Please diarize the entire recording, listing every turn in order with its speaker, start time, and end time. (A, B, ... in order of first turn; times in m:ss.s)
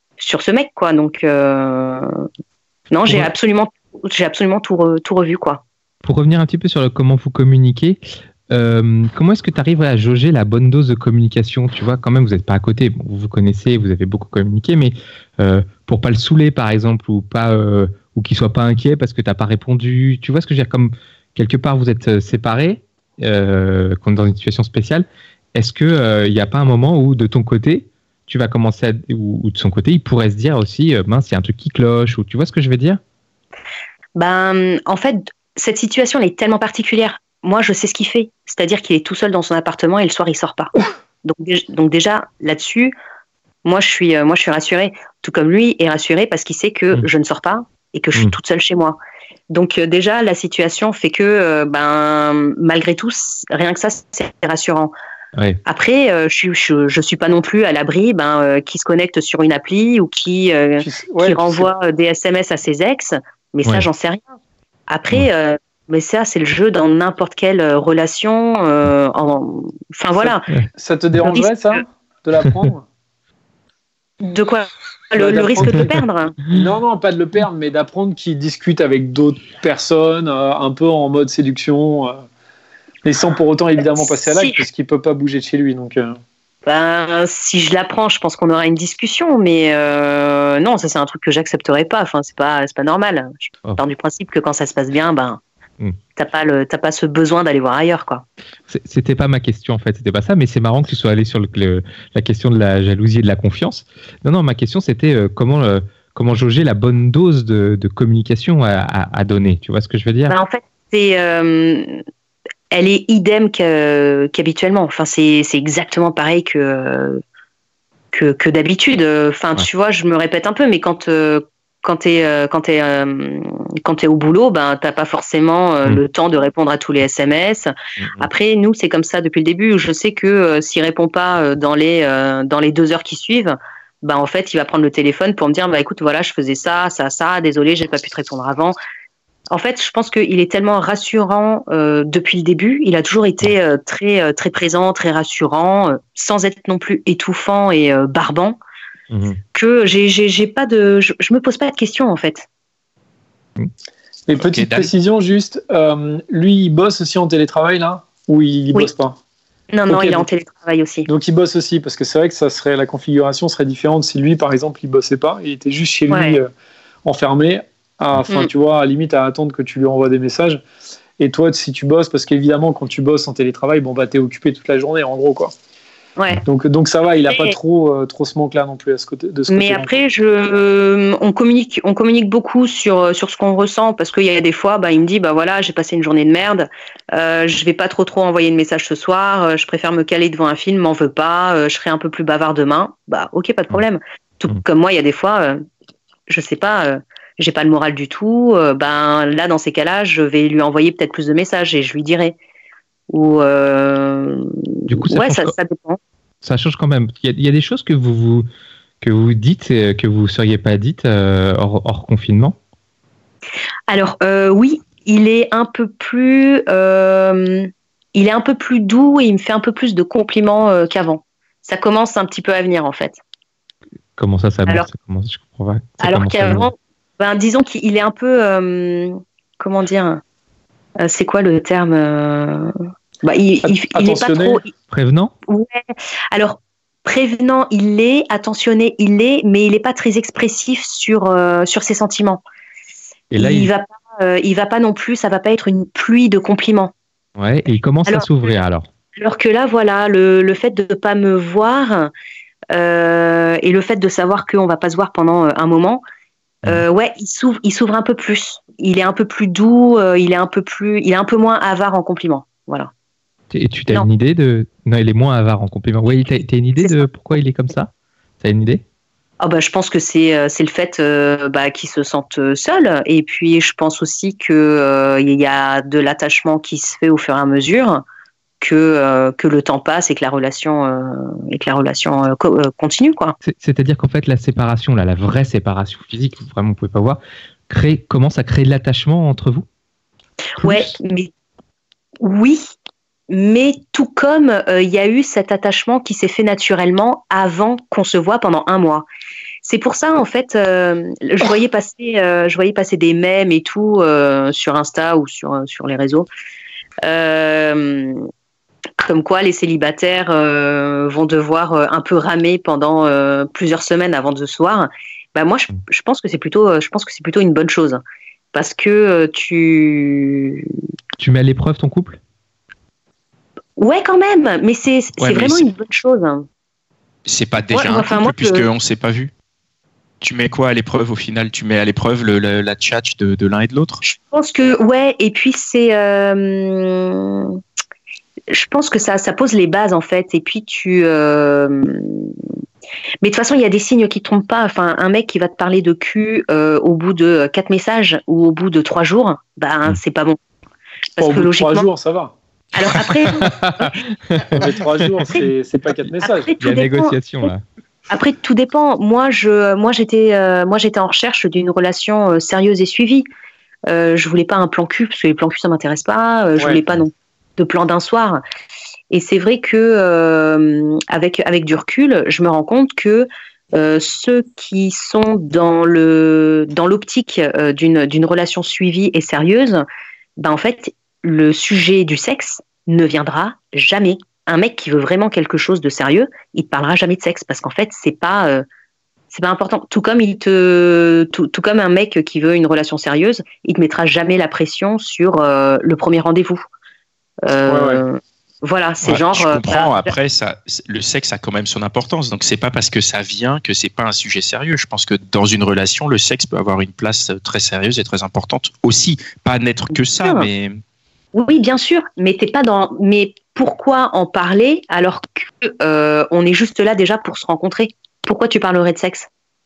0:00.2-0:02.2 A
0:02.9-0:05.6 A
0:06.0-0:33.0 B
0:34.2-0:40.7 A
0:41.2-0:42.9 A
0:43.6-0:49.0 A
0:49.5-0:54.9 A
0:55.6-1:04.3 A
1:00.8-1:01.7 C
1:04.9-1:10.5 A
1:10.2-1:12.9 C
1:11.2-1:11.8 A
1:14.2-1:16.4 A
1:15.2-1:15.9 C
1:16.5-1:22.2 C
1:23.0-1:26.2 C
1:24.2-1:24.6 A
1:26.7-1:35.4 A
1:36.2-1:38.2 A
1:38.7-1:50.4 B
1:50.3-1:52.0 A
1:52.7-1:57.2 A
1:58.1-2:18.8 A
2:08.0-2:08.3 B
2:19.5-2:28.6 A
2:29.1-2:29.4 B
2:29.5-2:32.5 A
2:34.3-2:39.2 C
2:34.4-2:34.9 D
2:39.7-2:41.1 A
2:39.9-2:40.3 C
2:41.1-2:46.5 C
2:46.1-2:46.4 A
2:47.0-2:50.6 C
2:51.2-2:55.5 C
2:56.4-2:59.9 C
2:57.3-2:57.6 A
2:59.5-3:15.6 A
3:16.3-3:22.4 A
3:23.1-3:24.5 A
3:24.9-3:25.6 B
3:25.0-3:26.0 A
3:26.4-3:28.5 B
3:29.0-3:32.6 B
3:33.9-3:43.2 A
3:44.2-3:46.7 B
3:46.0-3:50.2 A
3:51.0-3:54.7 A
3:53.6-3:54.6 C
3:54.9-3:55.3 B
3:55.5-4:02.4 A
4:03.3-4:03.7 B
4:03.4-4:06.9 A
4:07.4-4:08.9 B
4:09.2-4:12.1 A
4:12.7-4:16.0 A
4:16.6-4:22.9 A
4:23.5-4:28.8 B
4:26.8-4:27.1 A
4:29.4-4:38.0 A
4:38.6-4:43.4 A
4:43.4-4:49.7 B
4:50.6-4:51.3 A
4:50.6-4:50.9 B
4:52.2-4:52.7 A
4:53.3-4:59.1 A
4:59.6-5:06.3 A
5:07.0-5:08.3 A
5:09.0-5:18.0 A
5:18.5-5:20.7 A
5:21.2-5:22.2 B
5:23.8-5:26.4 A
5:25.2-5:25.6 D
5:27.3-5:29.3 D
5:27.7-5:28.7 A
5:30.2-5:34.0 D
5:34.0-5:37.6 A
5:38.5-5:42.3 A
5:43.2-5:50.4 A
5:51.2-5:51.9 A
5:51.2-5:52.3 C
5:52.8-5:54.0 A
5:53.3-5:54.6 B
5:54.6-5:56.5 C
5:56.2-5:57.2 A
5:56.6-5:57.6 B
5:58.1-6:03.3 A
6:03.9-6:08.4 A
6:06.6-6:06.8 C
6:09.1-6:19.8 A
6:20.4-6:28.6 A
6:29.3-6:36.6 A
6:37.5-6:40.1 A
6:37.7-6:38.0 C
6:39.0-6:50.8 D
6:50.2-6:50.5 A
6:51.3-6:59.3 A